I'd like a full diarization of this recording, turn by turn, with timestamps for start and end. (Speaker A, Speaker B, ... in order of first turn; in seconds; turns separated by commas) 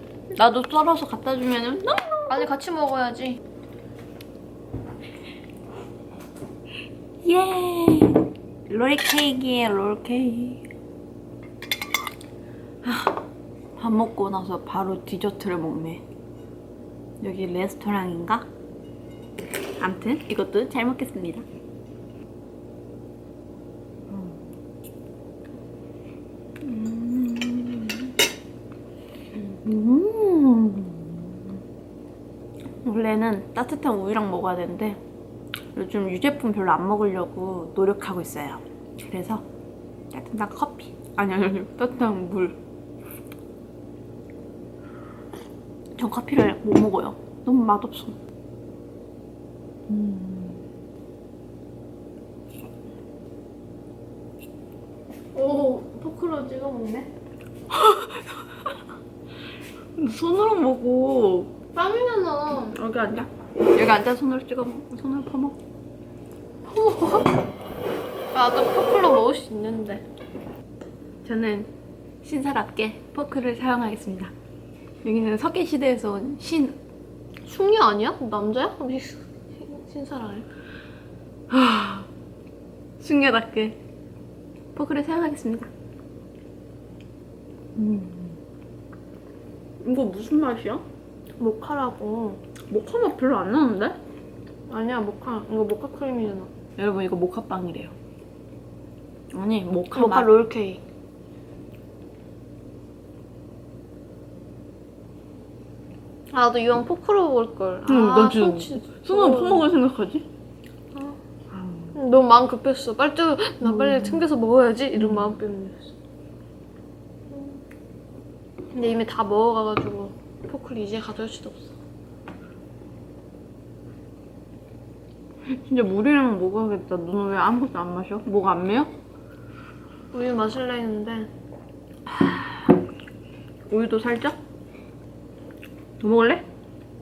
Speaker A: 0.3-2.5, Speaker B: 2.3-3.4, Speaker A: 7.2-10.6, Speaker A: 12.8-13.2, Speaker A: 13.8-16.0, Speaker A: 17.2-18.5, Speaker A: 19.8-21.4, Speaker A: 24.1-24.4, Speaker A: 26.6-28.1, Speaker A: 29.3-31.4, Speaker A: 32.8-35.0, Speaker A: 35.7-39.5, Speaker A: 40.1-42.6, Speaker A: 46.0-48.2, Speaker A: 49.9-50.6, Speaker B: 55.3-57.1, Speaker A: 57.7-58.2, Speaker A: 60.0-61.5, Speaker B: 61.7-62.8, Speaker A: 62.7-65.6, Speaker B: 66.7-67.3, Speaker B: 68.3-70.0, Speaker A: 71.2-71.7, Speaker A: 72.2-74.3, Speaker A: 75.0-76.8, Speaker B: 77.4-80.5, Speaker A: 81.5-82.1, Speaker A: 83.0-83.8, Speaker A: 84.7-85.7, Speaker A: 87.8-88.4, Speaker A: 89.8-90.8, Speaker B: 91.4-92.4, Speaker A: 92.7-94.0, Speaker B: 94.7-96.5, Speaker A: 96.8-97.9, Speaker A: 99.3-100.3, Speaker B: 99.9-100.8, Speaker B: 106.3-109.7, Speaker A: 107.9-110.3, Speaker B: 110.9-111.2, Speaker A: 111.5-112.0, Speaker B: 111.9-115.9, Speaker A: 113.6-114.3, Speaker A: 114.9-115.4, Speaker B: 117.3-117.6, Speaker B: 118.7-121.8, Speaker A: 125.5-128.9, Speaker B: 130.1-131.3, Speaker A: 132.1-132.7, Speaker A: 133.7-134.4, Speaker A: 136.0-136.4